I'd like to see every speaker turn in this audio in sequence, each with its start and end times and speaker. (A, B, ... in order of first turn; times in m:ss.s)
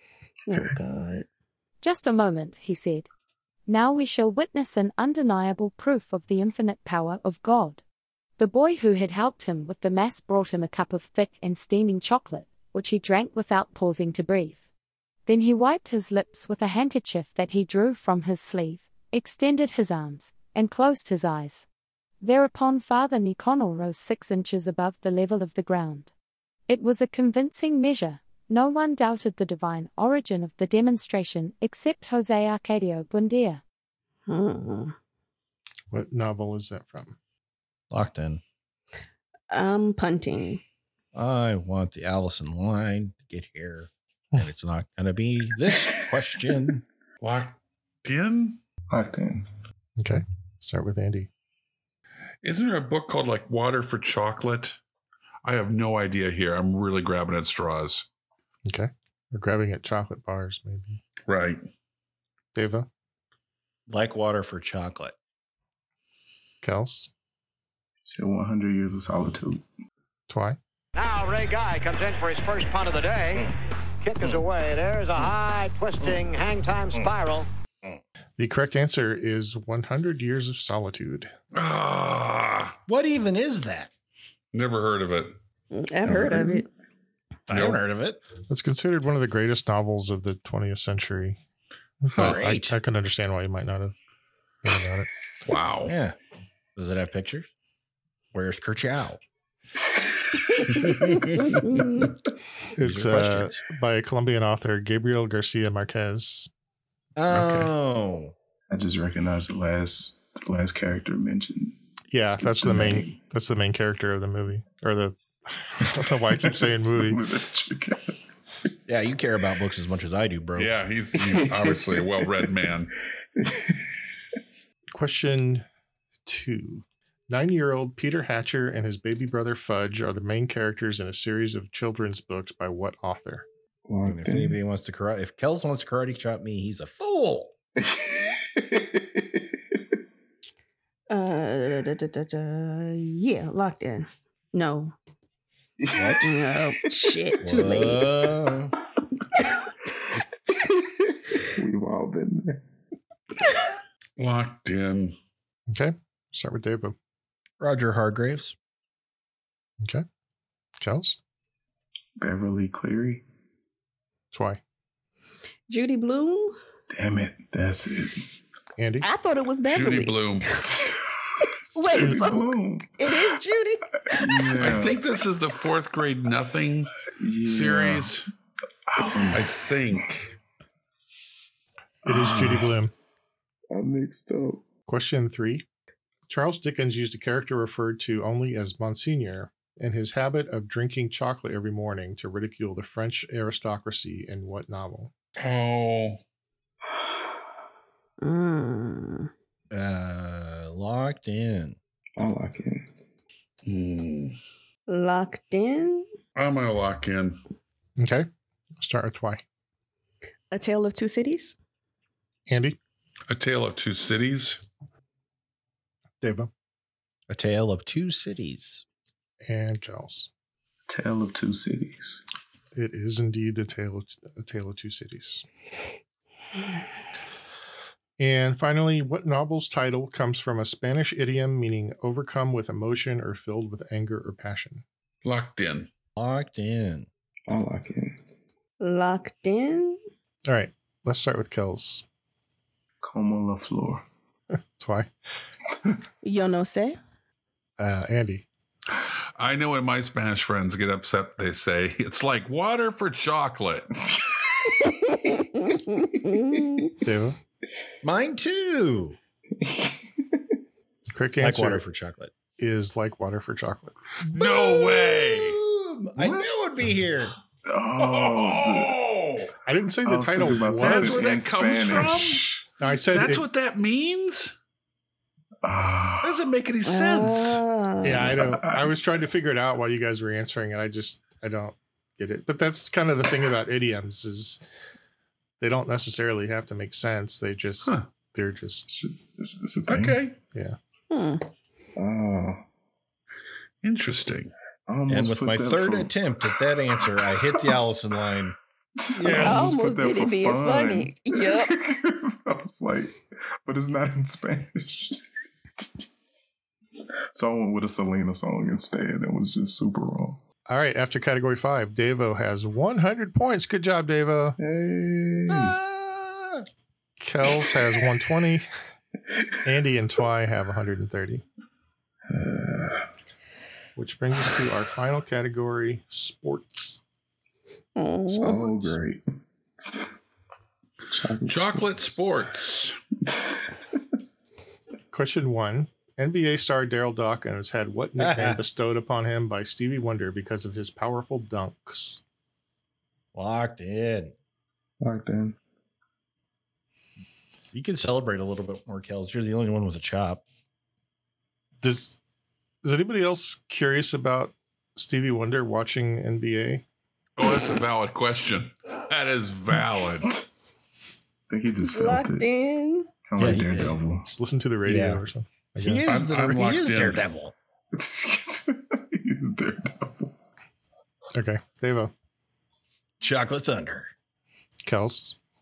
0:00.5-0:01.2 A
0:01.8-0:03.1 B
0:03.7-0:07.8 B
0:08.4-0:14.6 B
0:15.2-0:21.6 B
0:22.2-0:26.1 B
0:26.7-0:33.6 B
0:34.3-0:34.9 A
0:35.9-0:37.2 C
0:37.9-0:38.4 D
0:39.5-0:40.6 A
0:41.1-0:46.8 D
0:47.2-0:48.6 E
0:48.9-0:49.4 F
0:50.0-0:51.3 C
0:52.4-0:54.8 E
0:55.4-0:58.1 E
0:58.6-1:01.0 C
1:01.2-1:01.6 E
1:02.5-1:02.9 C
1:03.9-1:05.1 D
1:06.6-1:07.1 C
1:08.0-1:09.6 F
1:10.3-1:10.6 C
1:10.9-1:13.5 G
1:14.0-1:17.5 G
1:18.4-1:21.3 C
1:21.5-1:22.8 E
1:22.9-1:23.9 D
1:24.5-1:25.4 E
1:25.7-1:26.7 A
1:26.2-1:26.6 F
1:27.5-1:28.2 D
1:27.5-1:27.8 E
1:28.5-1:31.4 C
1:32.0-1:33.9 C
1:32.1-1:32.8 D
1:34.6-1:35.1 C
1:35.4-1:35.9 E
1:35.8-1:36.2 D
1:36.8-1:37.5 D
1:38.3-1:39.2 D
1:41.2-1:41.4 E
1:41.6-1:42.1 A
1:42.7-1:46.5 C
1:42.8-1:43.6 D
1:47.2-1:48.3 D
1:47.3-1:47.7 C
1:48.7-1:51.8 F
1:52.1-1:57.2 C
1:52.4-1:53.2 F
1:56.0-1:58.2 F
1:58.9-2:00.7 D
2:00.6-2:02.9 E
2:01.2-2:02.5 F
2:03.4-2:03.8 F
2:04.9-2:05.6 C
2:06.2-2:13.4 C
2:13.9-2:14.6 F
2:14.0-2:17.5 D
2:17.8-2:19.4 F
2:21.1-2:24.9 A
2:25.8-2:26.2 F
2:26.0-2:26.3 D
2:26.2-2:28.1 A
2:27.4-2:28.7 D
2:31.5-2:32.6 F
2:34.2-2:35.1 E
2:35.7-2:37.0 C
2:37.6-2:38.5 D
2:40.8-2:41.2 C
2:42.2-2:43.2 F
2:44.3-2:44.6 C
2:45.7-2:46.6 A
2:46.9-2:48.2 F
2:48.8-2:49.1 C
2:49.0-2:50.5 A
2:49.6-2:50.5 E
2:51.7-2:53.1 F
2:51.8-2:54.4 A
2:54.1-2:55.0 F
2:54.6-2:56.9 E
2:57.0-2:58.2 F
2:57.4-2:58.3 E
2:58.9-2:59.6 F
2:59.3-3:00.3 E
3:02.0-3:02.7 F
3:02.0-3:02.9 C
3:03.7-3:04.6 F
3:04.9-3:05.6 C
3:06.3-3:15.1 C
3:15.4-3:16.2 E
3:18.2-3:19.3 A
3:19.7-3:21.8 D
3:22.2-3:22.9 F
3:23.6-3:24.4 E
3:24.9-3:26.0 A
3:26.3-3:27.4 E
3:28.0-3:28.3 C
3:28.8-3:29.4 C
3:30.5-3:31.6 A
3:32.5-3:32.8 C
3:33.3-3:34.6 E
3:36.2-3:36.5 C
3:37.3-3:38.8 D
3:39.4-3:40.3 C
3:40.9-3:42.2 F
3:42.7-3:45.4 C
3:48.2-3:54.8 C
3:55.2-3:55.9 E
3:56.2-3:57.1 D
3:57.5-3:58.2 F
3:58.8-4:00.0 A
4:00.5-4:02.0 C
4:03.0-4:04.0 F
4:04.8-4:05.1 C
4:06.2-4:07.0 A
4:07.8-4:08.5 C
4:09.0-4:13.9 E
4:14.0-4:14.5 F
4:15.1-4:16.9 A
4:17.0-4:17.4 C
4:18.0-4:19.2 D
4:19.6-4:20.0 F
4:21.1-4:21.8 C
4:21.4-4:22.3 D
4:22.6-4:23.9 C
4:24.3-4:25.6 E
4:24.3-4:27.3 D
4:26.2-4:26.5 F
4:27.6-4:29.0 F
4:28.0-4:29.5 E
4:29.6-4:31.2 C
4:30.0-4:32.7 F
4:30.6-4:32.4 E
4:32.8-4:33.4 C
4:32.9-4:34.5 E
4:35.6-4:36.4 F
4:36.2-4:37.6 E
4:36.8-4:38.4 A
4:38.0-4:44.6 C
4:38.2-4:39.0 F
4:45.6-4:48.9 C
4:48.9-4:50.2 F
4:49.9-4:50.4 E
4:51.1-4:51.4 A
4:52.0-4:52.6 F
4:53.8-4:54.5 E
4:54.9-4:56.2 F
4:55.1-4:58.5 D
4:57.2-4:57.6 F
4:59.0-5:05.2 F
4:59.1-4:59.7 D
4:59.3-5:01.7 A
5:07.3-5:10.4 F
5:10.7-5:14.6 C
5:14.6-5:15.8 F
5:15.5-5:16.6 D
5:17.2-5:18.7 C
5:19.6-5:21.4 C
5:22.3-5:23.1 F
5:24.0-5:27.0 C
5:28.0-5:28.6 A
5:28.3-5:28.9 C
5:28.4-5:29.2 F
5:29.8-5:30.1 F
5:31.1-5:32.2 F
5:31.5-5:33.0 E
5:35.1-5:42.2 C
5:38.2-5:38.6 D
5:43.3-5:44.3 D
5:45.0-5:45.6 F
5:47.7-5:50.4 D
5:51.8-5:52.2 C
5:52.8-5:56.8 C
5:57.4-6:00.4 E
6:01.5-6:02.5 F
6:01.8-6:03.1 A
6:03.2-6:04.3 F
6:03.4-6:04.0 D
6:04.2-6:06.1 C
6:04.8-6:05.2 D
6:05.8-6:07.5 D
6:06.0-6:07.2 E
6:07.9-6:10.3 F
6:11.3-6:12.1 C
6:13.2-6:14.1 D
6:14.8-6:15.4 C